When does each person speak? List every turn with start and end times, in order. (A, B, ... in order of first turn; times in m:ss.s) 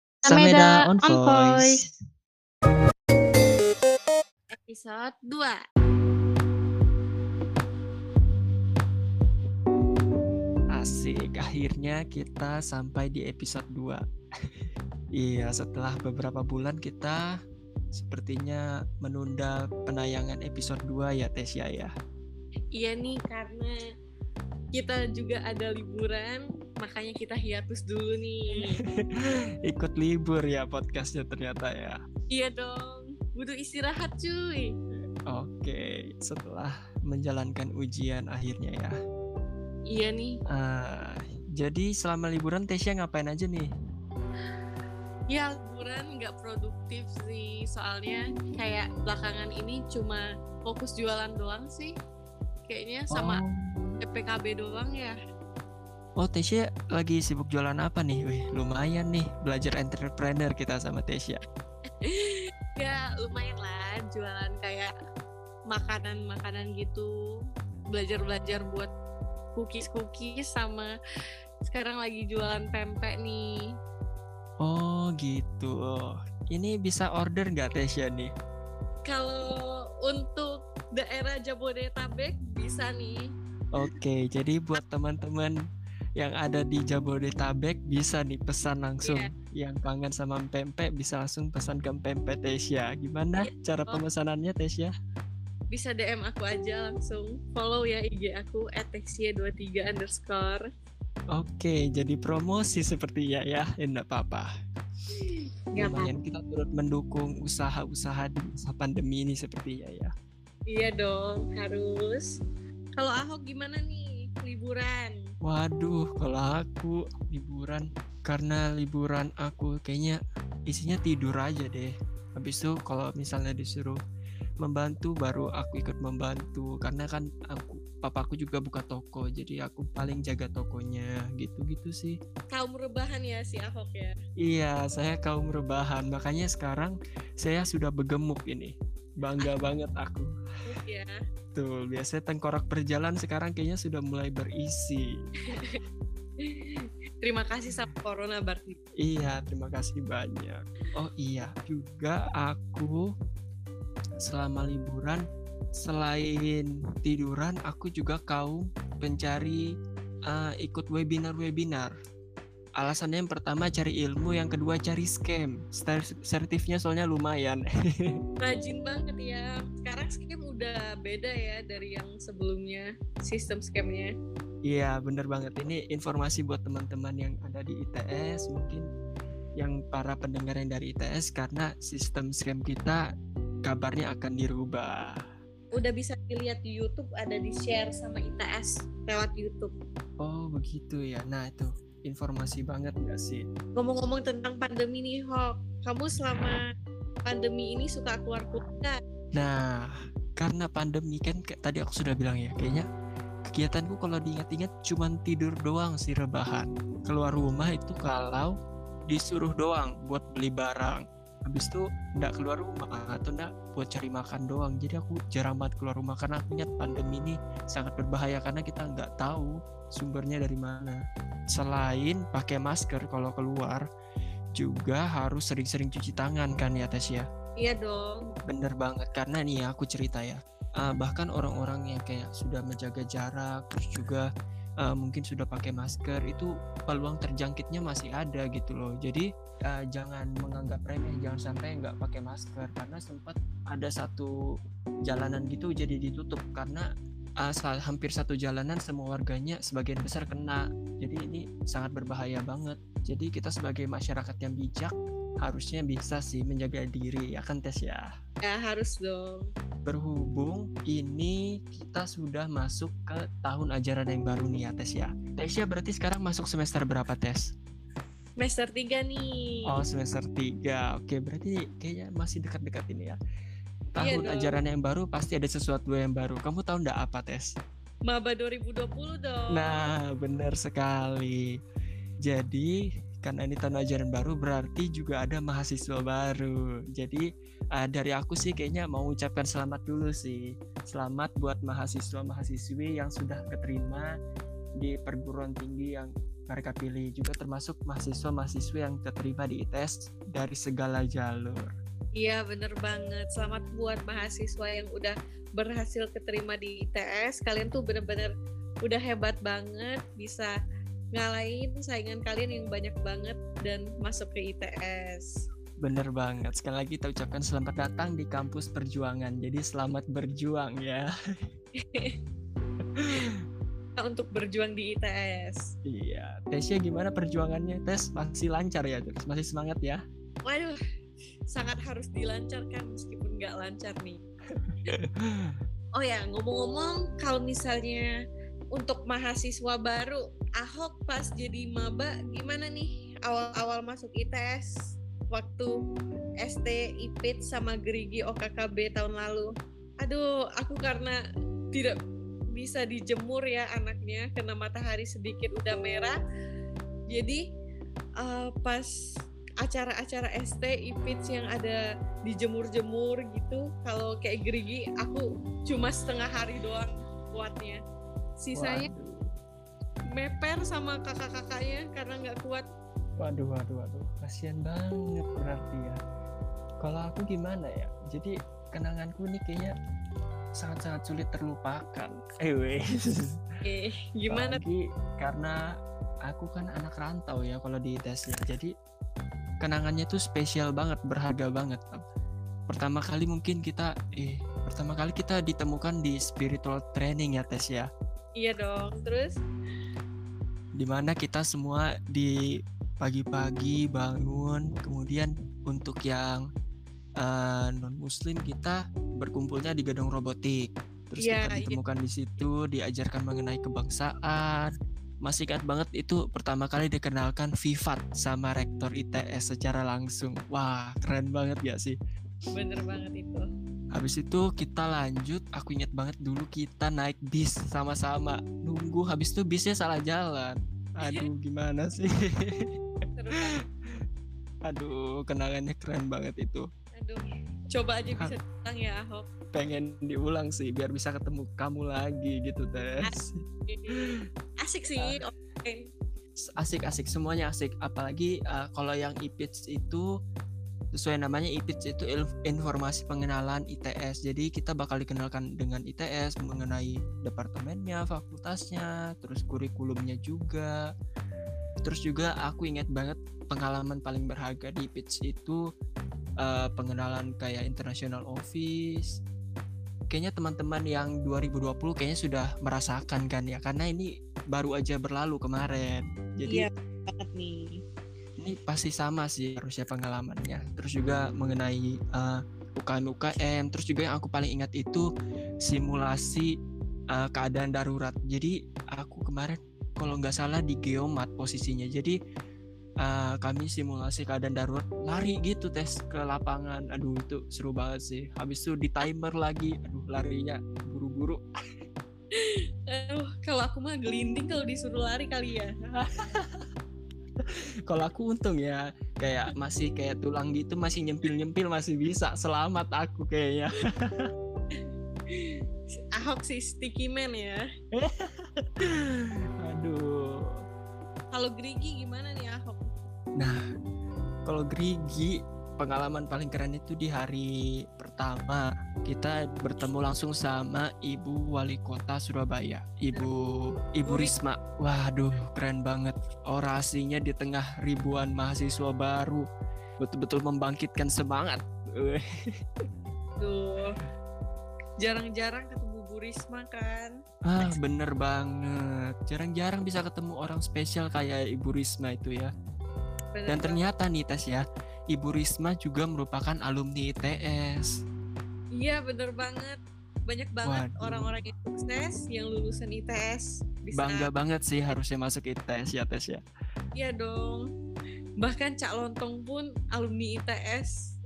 0:00.2-0:01.8 A
0:00.3-0:01.8 B
0:04.5-0:05.6 B
0:10.7-0:14.0 A
0:15.2-0:17.2 A
0:17.9-0:21.9 A
0:22.7-0:23.8 B
0:24.7-0:28.8 B
0:29.6-0:32.0 A
0:32.3-0:34.7 B
0:35.3-0:38.9 A
0:39.9-0:40.4 B
0:40.5-0:43.7 A
0:45.3-0:51.9 B
0:52.7-0:53.4 B
0:53.1-0:54.0 A
0:54.0-0:55.2 B
0:56.2-1:01.4 A
1:02.0-1:04.9 B
1:05.7-1:07.1 B
1:07.9-1:08.9 B
1:09.6-1:10.9 B
1:11.7-1:13.4 B
1:14.6-1:18.3 A
1:19.0-1:23.3 B
1:23.7-1:25.5 A
1:26.2-1:34.9 A
1:29.0-1:29.3 B
1:33.4-1:34.0 B
1:35.7-1:40.6 B
1:41.3-1:44.5 A
1:45.7-1:46.1 B
1:45.8-1:50.1 A
1:50.7-1:52.3 B
1:53.0-1:55.2 B
1:55.4-2:04.0 A
2:04.6-2:12.2 A
2:12.5-2:14.1 B
2:14.4-2:20.3 A
2:20.7-2:21.1 B
2:21.5-2:25.7 A
2:25.5-2:25.8 B
2:26.4-2:28.8 B
2:29.0-2:33.1 A
2:34.2-2:35.2 A
2:35.8-2:39.6 A
2:40.3-2:41.9 A
2:42.8-2:48.2 A
2:48.4-2:54.1 B
2:54.6-2:58.8 A
2:59.6-3:03.0 A
3:03.6-3:05.1 A
3:05.7-3:09.7 B
3:10.2-3:13.4 A
3:13.8-3:16.6 B
3:17.2-3:19.0 B
3:19.3-3:19.9 A
3:20.4-3:22.8 A
3:23.5-3:28.5 A
3:29.1-3:41.0 A
3:41.5-3:43.8 A
3:44.6-3:47.2 A
3:47.6-3:48.3 B
3:48.4-3:54.3 A
3:54.8-4:04.3 A
4:05.1-4:06.8 A
4:07.4-4:18.1 A
4:18.4-4:19.5 B
4:19.8-4:27.5 A
4:28.4-4:29.6 B
4:29.7-4:33.2 A
4:33.9-4:37.5 A
4:34.0-4:34.6 B
4:38.1-4:39.7 B
4:39.5-4:41.4 A
4:42.2-4:54.1 A
4:54.8-5:01.7 A
5:02.2-5:08.3 B
5:08.8-5:10.5 B
5:11.1-5:15.4 B
5:15.8-5:21.1 A
5:21.8-5:22.2 B
5:23.0-5:23.4 A
5:24.0-5:25.6 B
5:25.8-5:30.0 A
5:30.4-5:30.8 B
5:31.5-5:34.2 B
5:34.5-5:35.6 A
5:36.0-5:38.1 B
5:38.7-5:45.7 B
5:46.4-5:51.2 B
5:52.5-5:56.2 B
5:57.1-5:57.4 B
5:58.2-5:58.9 B
5:59.6-6:07.8 B
6:08.4-6:08.9 B
6:08.6-6:09.2 A
6:10.1-6:12.6 B
6:13.2-6:16.0 A
6:16.8-6:19.7 A
6:20.6-6:23.4 A
6:23.6-6:24.6 B
6:24.3-6:25.5 A
6:26.3-6:28.7 A
6:29.6-6:32.0 A
6:32.7-6:37.9 A
6:38.4-6:39.4 B
6:40.8-6:42.4 A
6:43.0-6:46.4 A
6:47.2-6:54.7 A
6:51.2-6:51.8 B
6:55.2-7:02.0 A
7:02.5-7:03.4 B
7:03.9-7:12.7 A
7:13.2-7:13.6 B
7:14.7-7:16.7 A
7:17.0-7:19.2 B
7:19.5-7:23.4 A
7:23.7-7:24.0 B
7:24.6-7:25.8 B
7:26.6-7:30.0 A
7:31.0-7:40.8 A
7:41.8-7:45.6 A
7:46.4-7:49.2 A
7:50.1-7:56.7 A
7:56.5-7:57.8 B
7:58.4-8:05.1 A
8:05.6-8:06.5 A
8:07.1-8:12.2 A
8:13.0-8:21.4 A
8:22.3-8:25.7 B
8:25.9-8:26.6 A
8:27.4-8:34.3 A
8:34.7-8:37.6 B
8:37.9-8:40.5 A
8:41.3-8:42.9 B
8:44.4-8:59.4 A
8:54.1-8:54.3 B
9:00.0-9:02.2 A
9:03.4-9:04.0 B
9:05.0-9:07.1 B
9:07.4-9:12.5 A
9:13.3-9:13.8 B
9:13.5-9:17.9 A
9:18.7-9:24.3 B
9:20.6-9:21.3 A
9:23.9-9:26.4 A
9:27.0-9:27.6 B
9:28.4-9:31.1 B